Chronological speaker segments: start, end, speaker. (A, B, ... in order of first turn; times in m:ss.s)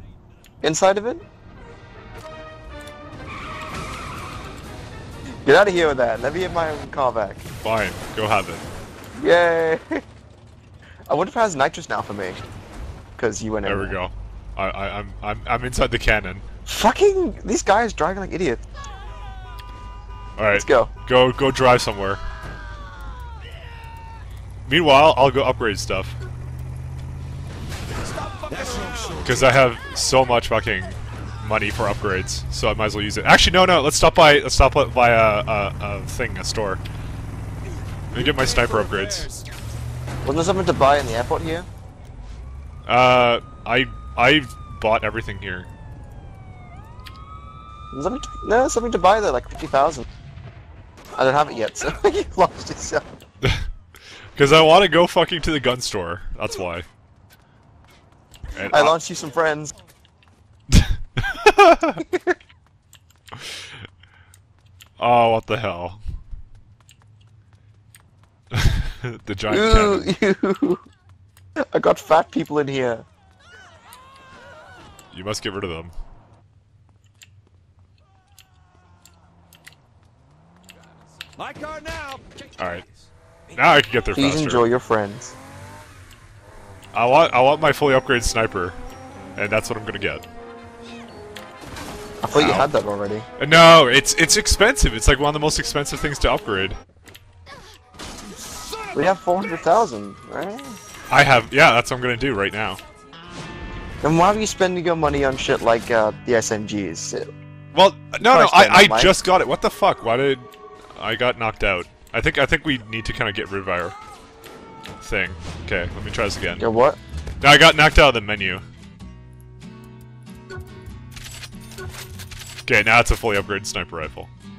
0:00.6-0:01.2 A
0:05.4-0:07.4 A
0:07.6-0:08.7 B
0:09.2-0:10.0 A
0:11.1-0:12.4 A
0:13.2-0:14.0 A
0:13.6-0:16.4 B
0:16.6-0:18.6 A
0:20.4-0:22.2 B
0:20.5-0:20.9 A
0:24.6-0:26.2 B
0:27.9-0:29.6 C
0:28.7-0:36.8 B
0:37.6-0:39.5 C
0:38.1-0:39.3 B
0:40.2-0:41.7 A
0:42.8-0:45.7 B
0:47.9-0:50.0 A
0:51.1-0:53.0 A
0:53.4-0:53.7 B
0:54.3-0:56.9 B
0:58.5-0:59.0 B
0:58.7-0:59.7 A
1:00.7-1:02.0 B
1:02.0-1:02.3 A
1:03.3-1:03.7 B
1:05.0-1:06.0 B
1:08.5-1:10.1 B
1:09.5-1:10.8 A
1:11.6-1:13.0 A
1:15.1-1:15.9 B
1:21.4-1:23.7 C
1:22.6-1:22.8 B
1:23.5-1:24.6 B
1:24.1-1:25.3 A
1:26.9-1:28.8 B
1:29.4-1:30.2 B
1:32.2-1:33.3 A
1:32.3-1:32.7 B
1:33.4-1:36.8 B
1:38.3-1:39.0 C
1:38.9-1:40.8 A
1:41.1-1:42.8 B
1:44.0-1:47.3 A
1:47.7-1:53.9 B
1:48.2-1:49.1 A
1:55.0-1:56.6 B
1:56.6-1:57.0 A
1:57.4-1:58.6 B
2:02.6-2:04.3 B